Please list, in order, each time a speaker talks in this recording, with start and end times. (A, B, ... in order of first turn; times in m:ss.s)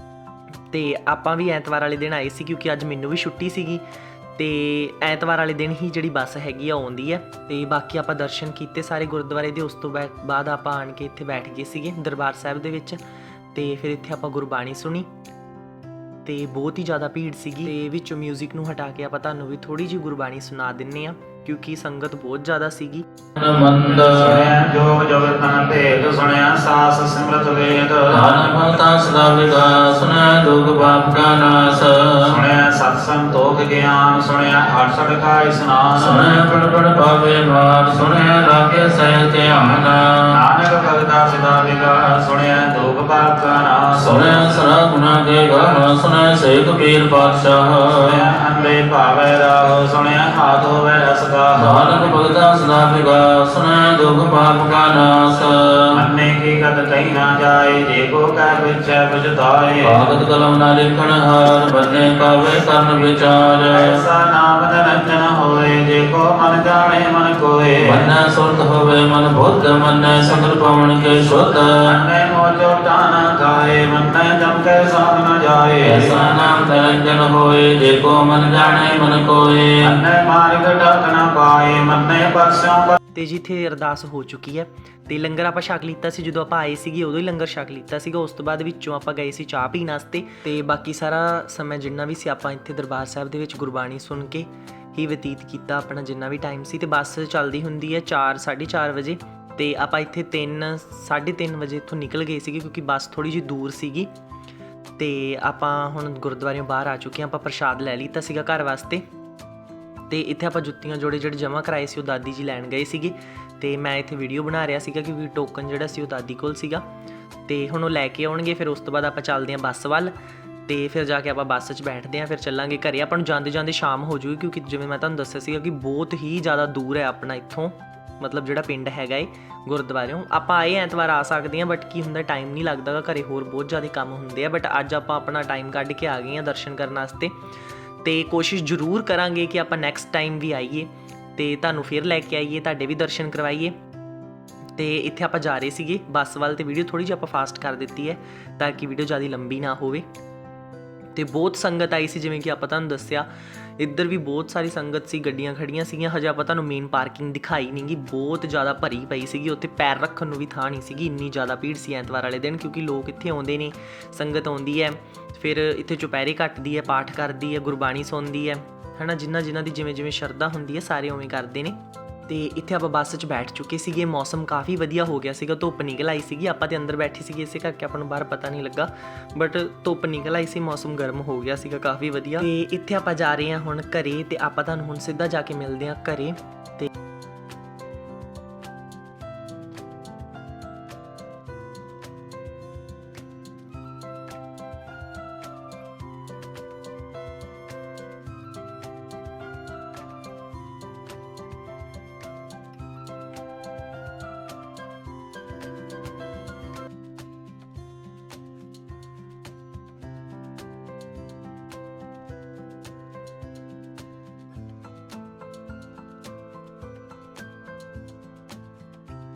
0:00.7-0:13.0 A
0:13.5-0:15.1 A
0:16.2-0:23.1 A
0:23.4-0:24.3 B
0:24.0-0:28.4 C
0:28.2-0:32.3 B
0:32.2-0:36.4 C
0:36.1-0:40.3 B
0:40.3-0:44.6 C
0:44.2-0:48.1 B
0:48.0-0:52.1 C
0:51.7-0:56.0 B
0:55.9-1:00.0 C
0:59.9-1:03.8 B
1:03.7-1:08.1 C
1:07.9-1:11.9 B
1:10.2-1:10.6 C
1:11.8-1:16.5 C
1:16.0-1:19.9 B
1:19.8-1:23.0 C
1:23.2-1:44.1 A
1:45.0-1:49.1 A
1:50.1-1:56.9 A
1:57.5-2:17.4 A
2:18.0-2:23.8 A
2:24.8-2:30.1 A
2:31.1-3:06.9 A